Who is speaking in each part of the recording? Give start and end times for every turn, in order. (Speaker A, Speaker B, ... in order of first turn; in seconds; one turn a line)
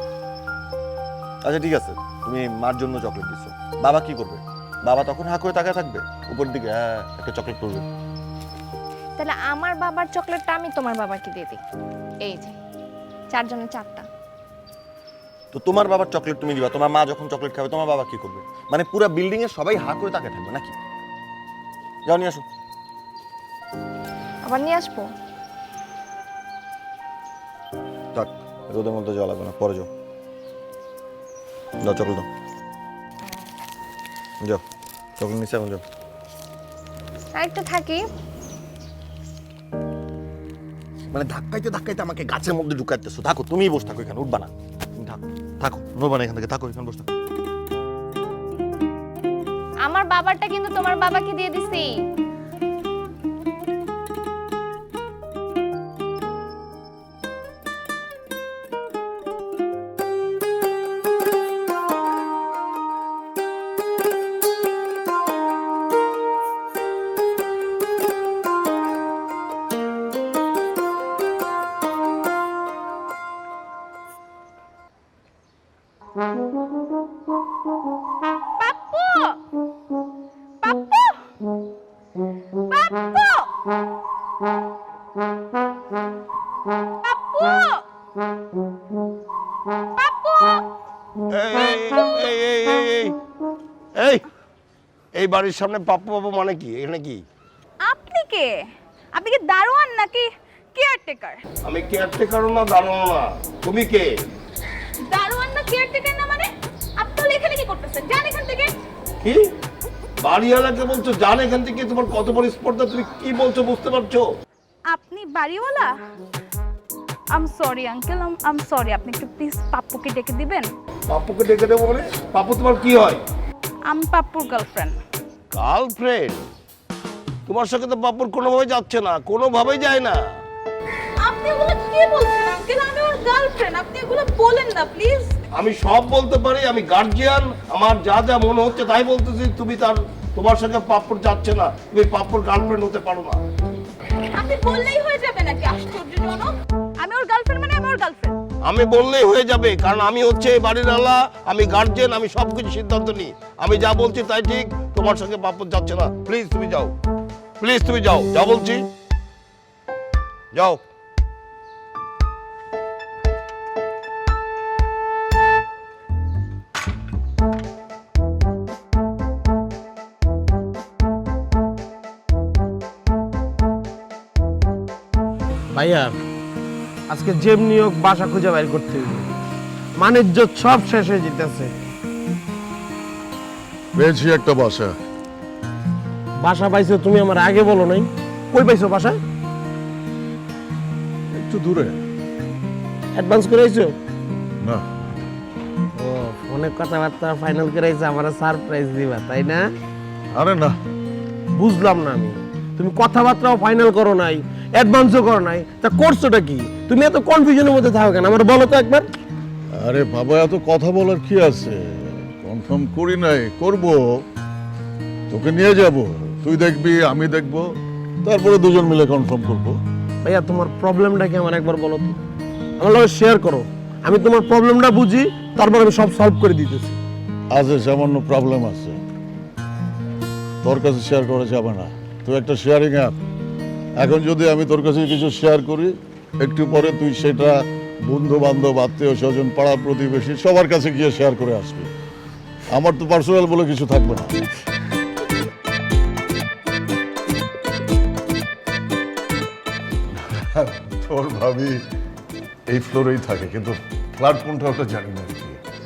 Speaker A: 1.4-7.8
Speaker B: 9.2-11.6
Speaker B: 12.2-12.5
Speaker B: 13.3-14.1
Speaker A: 15.5-20.8
Speaker A: 22.1-22.4
Speaker B: 24.4-25.1
Speaker A: 28.1-29.9
Speaker A: 31.8-32.3
Speaker A: 35.2-35.8
Speaker B: 37.4-38.0
Speaker A: 41.1-47.1
Speaker B: 49.8-51.9
Speaker C: 78.6-79.4
Speaker C: 80.6-81.2
Speaker C: 82.7-83.5
Speaker C: 87.0-87.8
Speaker C: 90.0-90.7
Speaker D: 91.3-93.2
Speaker D: 94.0-94.2
Speaker D: 95.1-97.2
Speaker C: 97.8-98.5
Speaker C: 99.2-101.4
Speaker D: 101.7-104.1
Speaker C: 105.0-108.7
Speaker D: 109.2-109.5
Speaker D: 110.2-114.3
Speaker C: 114.9-116.0
Speaker C: 117.3-120.7
Speaker D: 121.1-123.2
Speaker C: 123.9-125.0
Speaker D: 125.5-126.5
Speaker D: 127.5-130.2
Speaker C: 131.2-135.3
Speaker D: 135.5-143.4
Speaker C: 144.3-148.3
Speaker D: 148.6-156.9
Speaker D: 157.6-158.8
Speaker D: 160.5-160.8
Speaker E: 175.7-176.1
Speaker E: 177.1-179.3
Speaker E: 180.0-181.7
Speaker F: 184.0-184.9
Speaker E: 186.4-189.2
Speaker F: 191.4-192.0
Speaker E: 193.2-193.9
Speaker E: 196.0-199.7
Speaker F: 200.3-200.8
Speaker E: 201.6-209.1
Speaker F: 209.8-214.2
Speaker F: 215.3-217.7
Speaker F: 218.2-219.8
Speaker E: 220.2-222.2
Speaker E: 222.8-227.0
Speaker F: 227.5-229.0
Speaker F: 230.6-233.2
Speaker F: 234.0-241.9
Speaker F: 242.7-244.4
Speaker F: 250.1-251.8
Speaker F: 252.7-255.6